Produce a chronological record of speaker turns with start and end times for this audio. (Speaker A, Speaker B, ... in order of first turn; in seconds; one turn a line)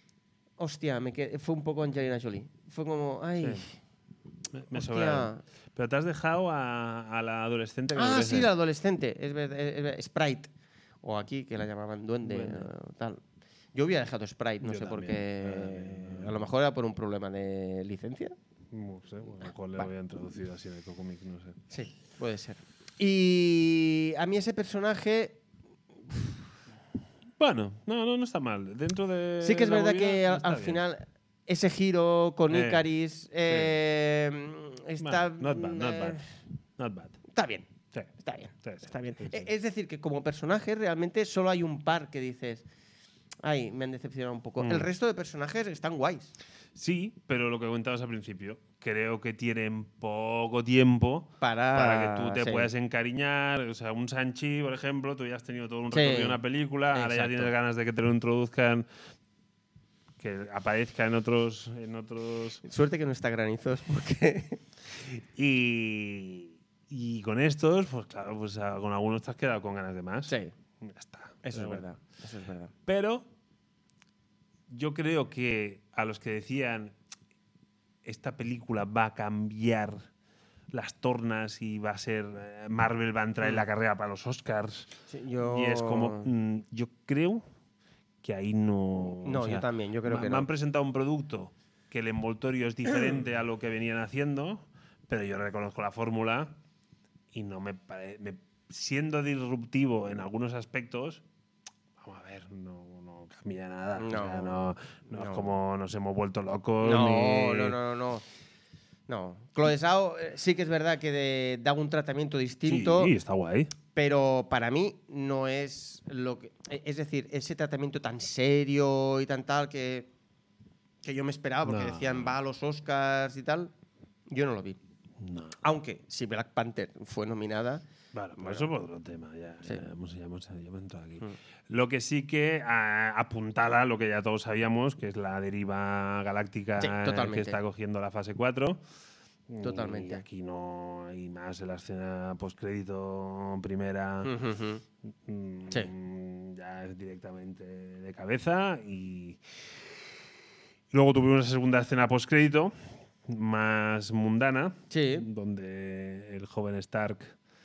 Speaker A: 0.6-3.8
Speaker B: 4.5-8.5
Speaker A: 4.7-5.4
Speaker A: 7.9-10.5
Speaker A: 11.0-13.2
Speaker B: 12.2-12.7
Speaker A: 13.8-18.4
Speaker B: 14.6-16.3
Speaker B: 18.7-21.6
Speaker A: 21.7-25.4
Speaker A: 26.1-26.4
Speaker B: 27.4-30.8
Speaker A: 29.4-36.3
Speaker B: 32.5-32.9
Speaker B: 33.5-33.8
Speaker B: 35.0-36.3
Speaker B: 36.8-37.2
Speaker A: 37.3-42.6
Speaker B: 38.6-39.5
Speaker A: 43.4-46.3
Speaker B: 44.6-44.9
Speaker B: 46.8-58.9
Speaker A: 51.4-52.7
Speaker A: 55.9-56.4
Speaker A: 56.9-57.5
Speaker B: 60.2-62.6
Speaker A: 62.6-64.6
Speaker B: 65.2-71.8
Speaker A: 70.3-70.5
Speaker A: 71.4-72.7
Speaker B: 72.9-73.3
Speaker B: 74.7-77.0
Speaker B: 78.0-80.1
Speaker B: 80.7-87.4
Speaker A: 85.1-86.3
Speaker B: 88.2-96.6
Speaker A: 89.2-90.5
Speaker B: 97.3-101.2
Speaker B: 102.0-107.8
Speaker A: 104.0-105.5
Speaker A: 106.8-108.2
Speaker A: 109.1-113.2
Speaker B: 112.7-113.7
Speaker A: 113.9-120.1
Speaker A: 121.0-123.7
Speaker B: 121.6-122.3
Speaker A: 124.3-124.8
Speaker B: 125.2-125.6
Speaker A: 125.6-127.8
Speaker B: 128.1-138.8
Speaker A: 128.4-128.7
Speaker A: 136.8-137.6
Speaker B: 139.5-144.3
Speaker A: 139.6-140.2
Speaker A: 144.2-144.8
Speaker B: 145.2-149.4
Speaker B: 150.9-157.4
Speaker A: 154.9-155.3